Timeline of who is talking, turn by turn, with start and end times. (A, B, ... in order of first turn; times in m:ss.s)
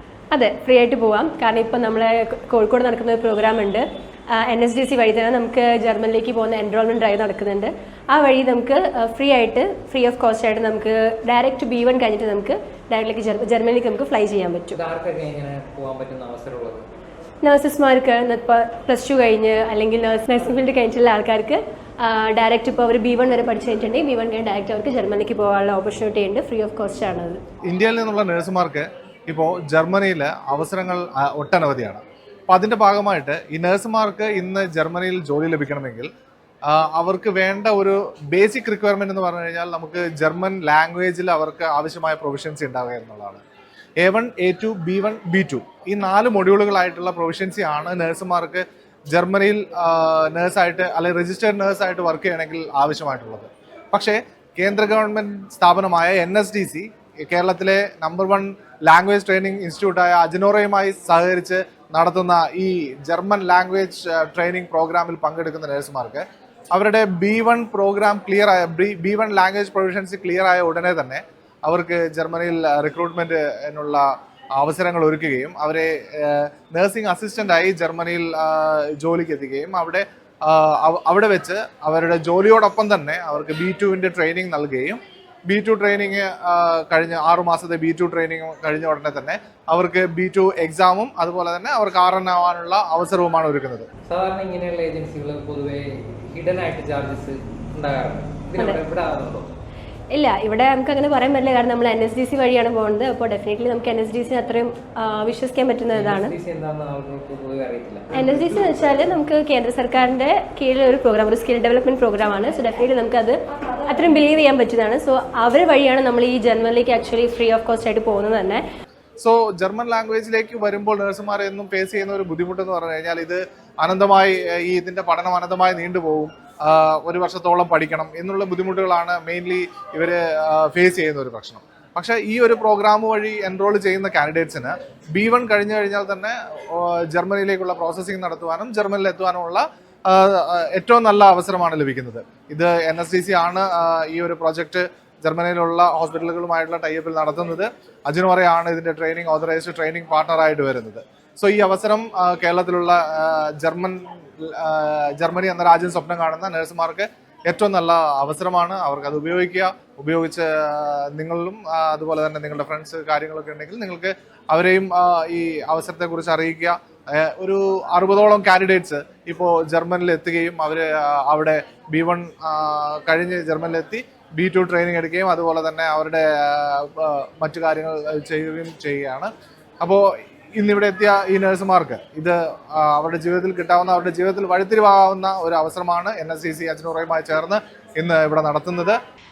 0:00.3-0:14.8 A
0:14.7-0:16.8 B
0:17.4-0:27.4 A
0:27.7-0:36.1 C
0:36.7-0:43.4 C
0:44.0-1:14.0 C
1:14.6-1:33.9 C
1:34.0-1:39.5 B
1:40.1-1:46.3 A
1:45.9-1:49.0 B
1:48.1-1:58.6 A
1:59.2-2:59.3 C
3:00.6-3:09.0 C